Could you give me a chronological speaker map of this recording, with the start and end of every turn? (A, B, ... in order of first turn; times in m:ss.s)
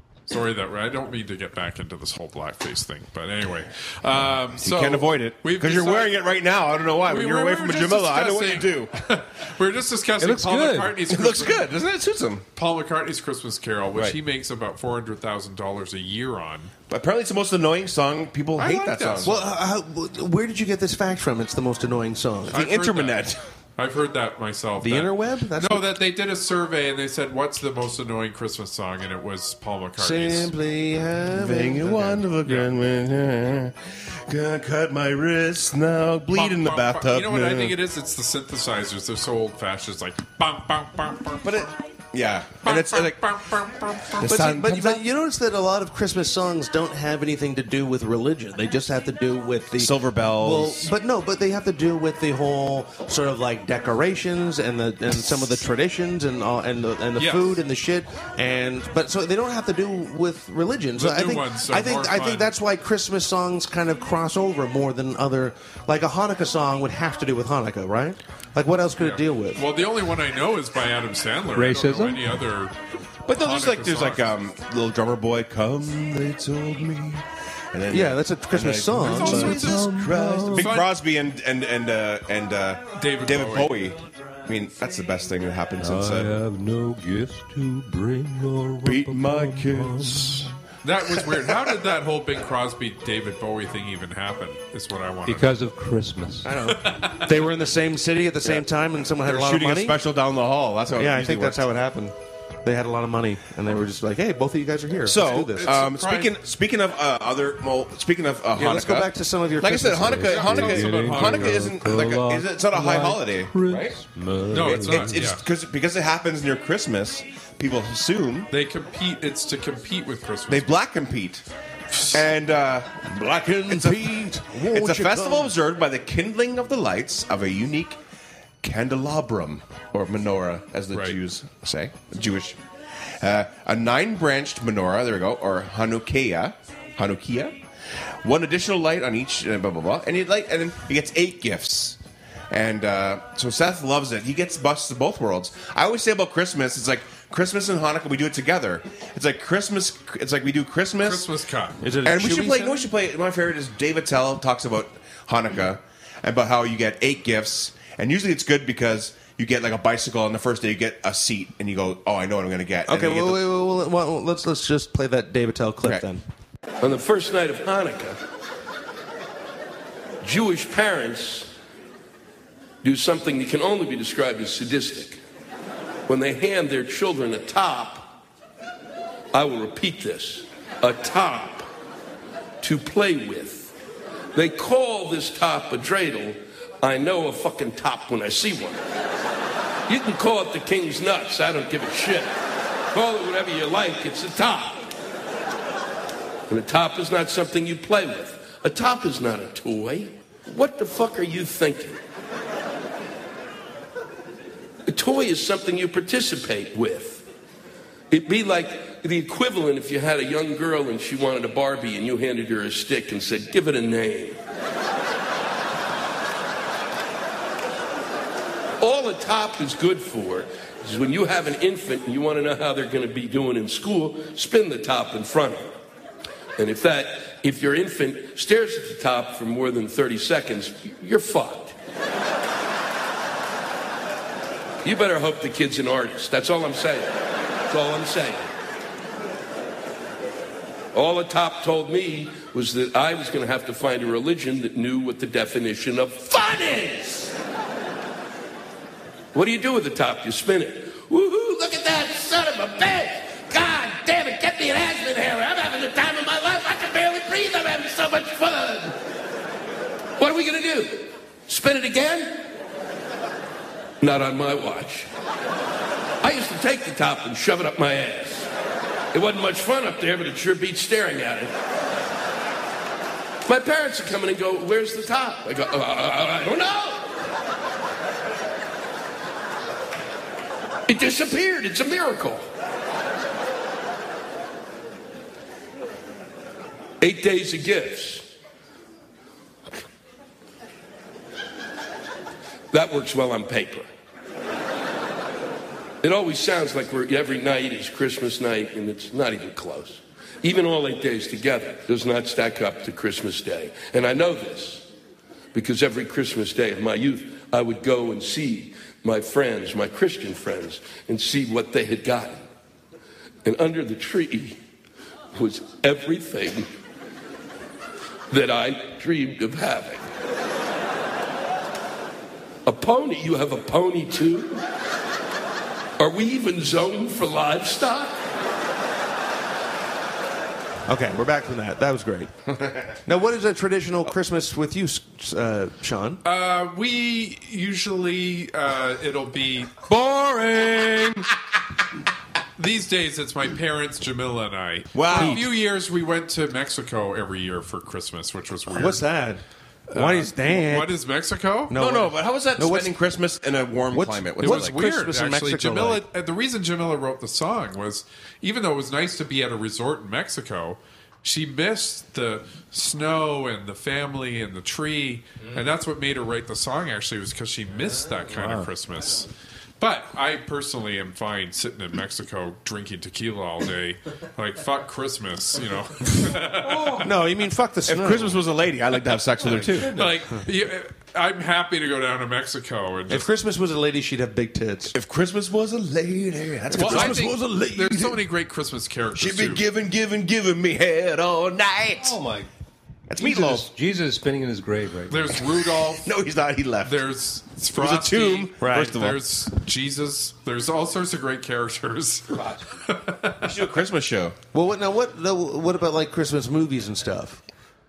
0:00.3-0:06.2 A
0:04.6-0:09.0 B
0:07.1-0:11.7 A
0:10.2-0:11.0 C
0:11.1-0:12.4 B
0:12.6-0:16.7 A
0:16.9-0:19.4 B
0:18.6-0:19.5 A
0:19.2-0:22.6 D
0:22.5-0:30.5 A
0:22.5-0:23.4 B
0:24.8-0:25.9 D
0:30.0-0:32.2 D
0:31.3-0:37.8 B
0:32.4-0:32.7 A
0:36.3-0:41.7 A
0:41.4-0:43.2 B
0:42.6-0:44.5 A
0:44.2-0:45.0 B
0:44.2-1:09.6 D
0:49.7-0:50.9 B
0:57.2-0:57.6 A
1:01.0-1:02.5 A
1:09.0-1:12.8 A
1:11.6-1:12.3 C
1:13.3-1:26.3 B
1:13.4-1:14.4 A
1:17.9-1:19.7 D
1:19.1-1:19.9 A
1:19.2-1:20.8 C
1:20.5-1:20.9 A
1:23.0-1:23.8 A
1:25.8-1:30.5 C
1:28.8-1:30.5 B
1:30.8-1:35.5 A
1:35.3-1:36.5 C
1:36.4-1:40.0 D
1:36.7-1:37.4 A
1:39.2-1:41.7 B
1:41.0-1:45.9 D
1:45.0-1:54.0 B
1:45.6-1:46.3 A
1:48.6-1:50.4 D
1:50.0-1:55.3 C
1:50.3-1:51.7 A
1:54.5-1:58.5 B
1:54.5-1:55.4 A
1:58.5-2:00.7 A
2:00.5-2:01.4 B
2:01.9-2:02.2 A
2:02.1-2:03.1 B
2:03.1-2:05.5 D
2:03.7-2:08.0 B
2:08.6-2:12.6 B
2:13.2-2:17.6 B
2:18.2-2:22.0 B
2:22.5-2:31.3 B
2:31.0-2:31.8 A
2:31.8-2:32.9 D
2:32.0-2:43.4 B
2:42.9-2:46.2 D
2:46.8-2:48.2 E
2:50.2-2:51.5 E
2:52.8-2:55.2 E
2:56.1-2:58.2 E
2:59.3-3:01.7 E
3:02.6-3:03.7 E
3:04.3-3:08.8 E
3:09.9-3:12.3 E
3:12.9-3:14.9 E
3:16.5-3:22.0 E
3:24.9-3:27.2 E
3:28.1-3:34.4 E
3:38.8-3:45.7 E
3:46.6-3:51.8 E
3:54.8-3:58.5 E
4:00.9-4:07.4 E
4:09.3-4:19.0 E
4:20.2-4:22.5 E
4:24.0-4:25.1 E
4:26.2-4:28.5 E
4:29.1-4:31.6 E
4:33.4-4:37.1 E
4:40.9-4:42.5 E
4:47.0-4:48.3 E
4:52.7-4:53.9 E
4:56.0-5:04.9 E
5:05.5-5:12.4 E
5:13.4-5:14.6 E
5:15.3-5:16.7 E
5:18.3-5:20.1 E
5:22.6-5:24.6 E
5:26.0-5:28.2 E
5:30.9-5:32.3 D
5:33.0-5:36.2 D
5:36.2-5:39.9 A
5:39.9-5:41.3 B
5:42.6-5:49.0 A
5:44.9-5:45.5 B
5:45.1-5:45.4 D
5:48.7-5:50.9 D
5:49.9-5:51.7 A
5:51.7-5:53.0 D
5:51.8-5:54.8 B
5:53.9-5:56.0 D
5:54.4-6:09.3 A
6:09.8-6:17.1 A
6:16.7-6:17.0 C
6:17.0-6:18.4 D
6:17.9-6:20.0 B
6:19.4-6:20.1 C
6:19.7-6:23.3 A
6:23.1-6:25.0 D
6:24.9-6:27.3 B
6:26.7-6:28.1 D
6:26.7-6:29.6 A
6:29.2-6:32.2 B
6:32.0-6:32.5 C
6:33.1-6:33.7 B
6:33.2-6:35.4 C
6:35.1-6:36.1 A
6:35.9-6:37.0 B
6:36.8-6:43.5 A
6:37.8-6:39.2 B
6:38.6-6:39.0 D
6:42.3-6:42.7 C
6:43.4-6:44.4 B
6:44.5-6:47.4 D